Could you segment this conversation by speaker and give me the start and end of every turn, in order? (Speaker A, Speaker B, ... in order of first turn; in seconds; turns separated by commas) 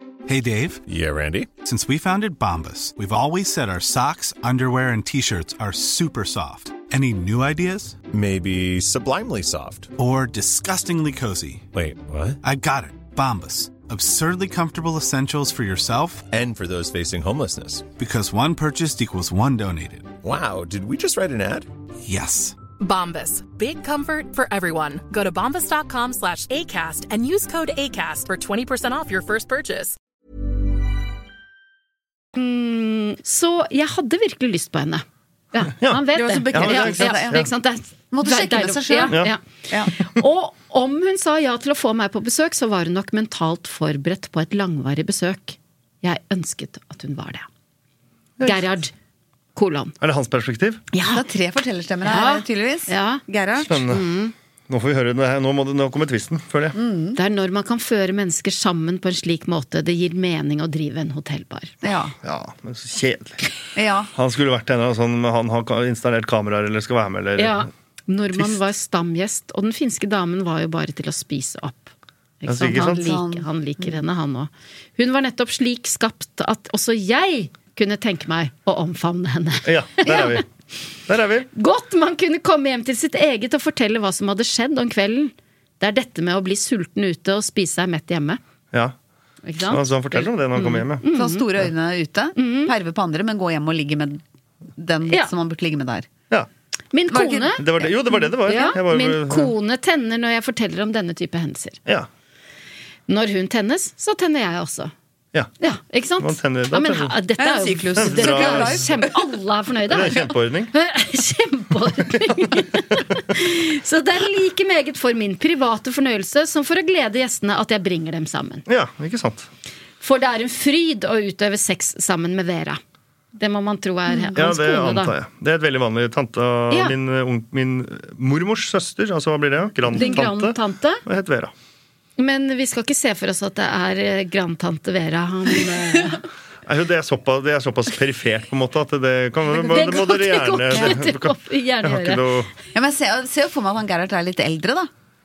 Speaker A: 0.3-0.8, Speaker B: 0.8-1.5, Speaker A: 1.6-8.0, Speaker B: 8.1-9.9, Speaker A: 10.0-11.7, Speaker B: 11.7-12.4, Speaker A: 12.4-16.3, Speaker B: 16.3-17.9, Speaker A: 17.9-20.2, Speaker B: 20.2-21.7, Speaker A: 22.0-22.6, Speaker C: 22.8-30.0, Speaker D: 32.4-39.4, Speaker E: 35.8-37.5, Speaker F: 36.1-37.5, Speaker F: 38.1-39.9, Speaker D: 40.0-47.5, Speaker E: 48.4-48.7, Speaker D: 48.4-48.9, Speaker D: 49.5-49.9, Speaker E: 50.0-50.8, Speaker D: 50.9-51.2, Speaker F: 51.1-53.9, Speaker D: 52.0-53.2, Speaker E: 53.6-54.0, Speaker D: 53.9-54.3, Speaker E: 54.7-56.8, Speaker F: 56.8-57.2, Speaker D: 57.2-61.8, Speaker F: 61.8-62.1, Speaker E: 62.2-63.4, Speaker F: 63.8-64.1, Speaker E: 64.1-67.7, Speaker D: 67.4-80.4, Speaker E: 72.5-73.0, Speaker F: 72.9-74.0, Speaker E: 79.7-80.4, Speaker E: 81.1-81.5, Speaker D: 81.5-88.4, Speaker D: 89.5-91.5, Speaker E: 89.6-91.0, Speaker F: 91.1-94.2, Speaker D: 92.4-92.7, Speaker F: 94.8-96.1, Speaker D: 96.9-97.7, Speaker F: 97.1-97.9, Speaker E: 97.6-99.5, Speaker D: 98.5-101.8, Speaker D: 103.1-104.9, Speaker D: 105.6-118.7, Speaker E: 106.2-107.2, Speaker F: 107.4-109.1, Speaker E: 108.0-108.8, Speaker E: 109.9-110.7, Speaker E: 118.7-119.5, Speaker D: 120.0-122.8, Speaker D: 123.3-125.1, Speaker E: 124.4-131.5, Speaker D: 129.9-131.0, Speaker D: 132.2-136.2, Speaker E: 136.7-142.5, Speaker F: 139.5-140.1, Speaker D: 139.7-142.2, Speaker F: 142.7-144.9